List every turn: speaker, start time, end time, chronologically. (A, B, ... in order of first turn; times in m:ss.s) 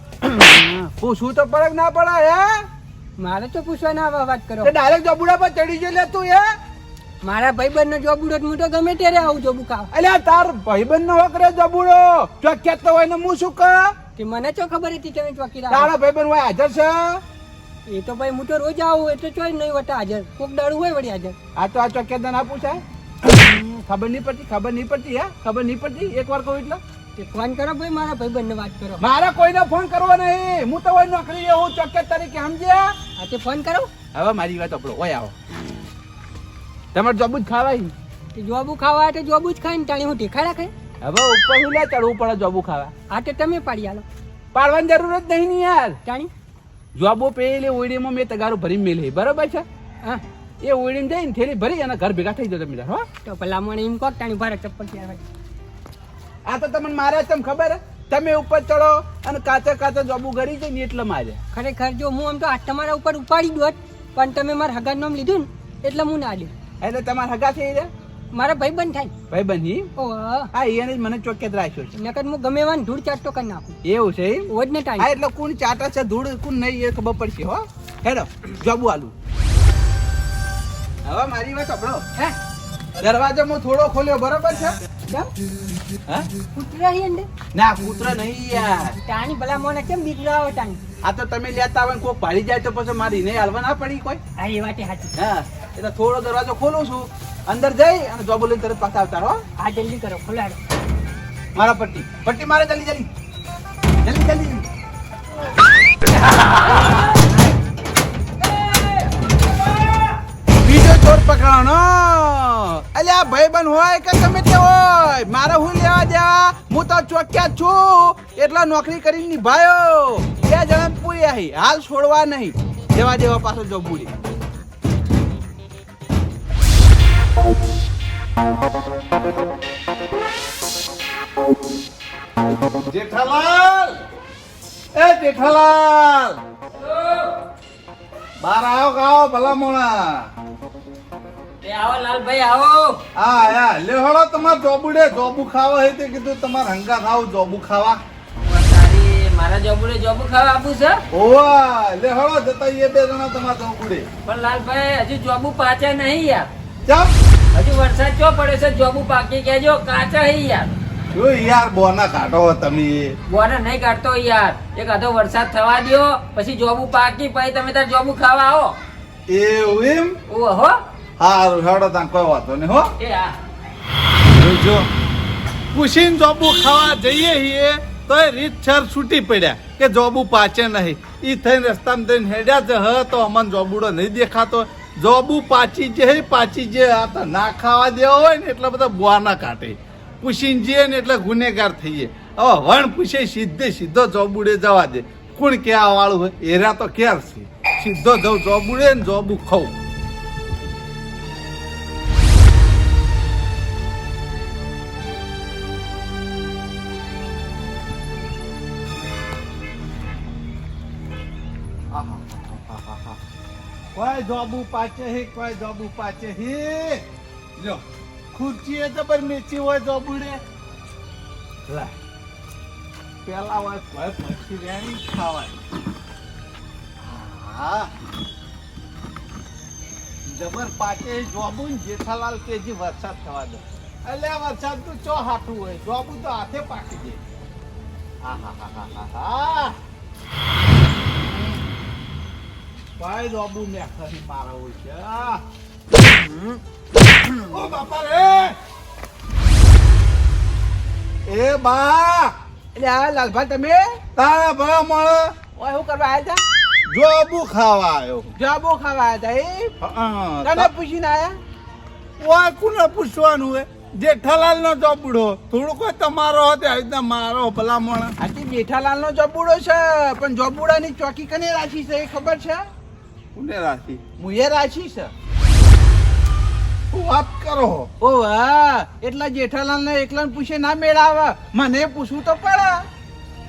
0:00.2-0:02.7 A
0:03.2-0:04.7 B
0:04.6-0:06.5 A
0:07.2-0:09.9 B
0:09.9-0:14.0 A
0:14.2-0:15.9 B
0:15.7-0:17.2 A
0:17.9-0:21.4 B
0:21.6-0:26.8 A
0:27.2-0:29.0 B
0:29.0-0:33.0 A
0:33.2-0:33.9 B
0:34.1-0:35.7 A
0:36.9-0:37.9 A
0:38.3-0:40.7 B
0:41.0-0:42.9 A
0:43.1-0:44.0 B
0:44.5-0:46.0 A
0:47.0-0:49.6 A
0:50.6-0:53.1 A
0:53.2-0:55.2 B
0:56.4-1:01.4 A
1:01.5-1:06.5 B
1:06.8-1:07.9 A
1:08.3-1:09.1 B
1:09.3-1:09.9 A
1:10.0-1:10.5 B
1:10.5-1:12.0 A
1:12.0-1:13.8 B
1:13.8-1:19.1 A
1:14.5-1:15.1 B
1:21.0-1:22.1 A
1:23.0-1:25.2 A
1:26.5-1:27.3 B
1:27.5-1:29.0 A
1:29.0-1:30.8 B
1:31.0-1:34.2 A
1:34.4-1:35.1 B
1:35.2-1:39.4 A
1:39.6-1:40.6 B
1:41.6-1:43.1 A
1:44.0-1:44.6 A
1:50.6-2:04.1 A
2:12.8-2:14.0 C
2:15.0-2:16.4 C
2:16.8-2:17.4 D
2:18.4-2:20.3 C
2:21.6-2:23.0 D
2:23.2-2:28.0 C
2:28.4-2:31.0 D
2:31.1-2:34.0 C
2:34.2-2:36.5 D
2:36.9-2:37.1 C
2:37.5-2:40.7 D
2:41.1-2:43.2 C
2:43.3-2:48.7 D
2:49.3-2:50.2 C
2:50.3-2:50.8 D
2:51.2-2:52.9 C
2:53.0-2:53.3 D
2:54.3-2:54.9 C
2:55.7-3:19.7 C
3:31.9-3:33.2 C
3:33.9-3:37.0 C
3:38.3-3:40.4 C
3:41.7-3:42.0 A
3:43.2-3:45.5 C
3:47.0-3:47.9 C
3:50.3-3:57.2 C
3:58.2-3:59.8 C
4:03.0-4:05.4 C
4:06.0-4:06.5 C
4:07.3-4:08.5 C
4:11.2-4:12.3 C
4:12.7-4:14.0 A
4:14.2-4:15.3 C
4:15.6-4:16.4 A
4:16.9-4:18.3 C
4:18.4-4:19.7 A
4:19.8-4:20.7 C
4:20.4-4:21.4 A
4:22.2-4:28.1 C
4:28.2-4:32.6 A
4:33.3-4:34.0 C
4:34.2-4:35.1 A
4:36.9-4:37.9 C
4:38.0-4:42.8 A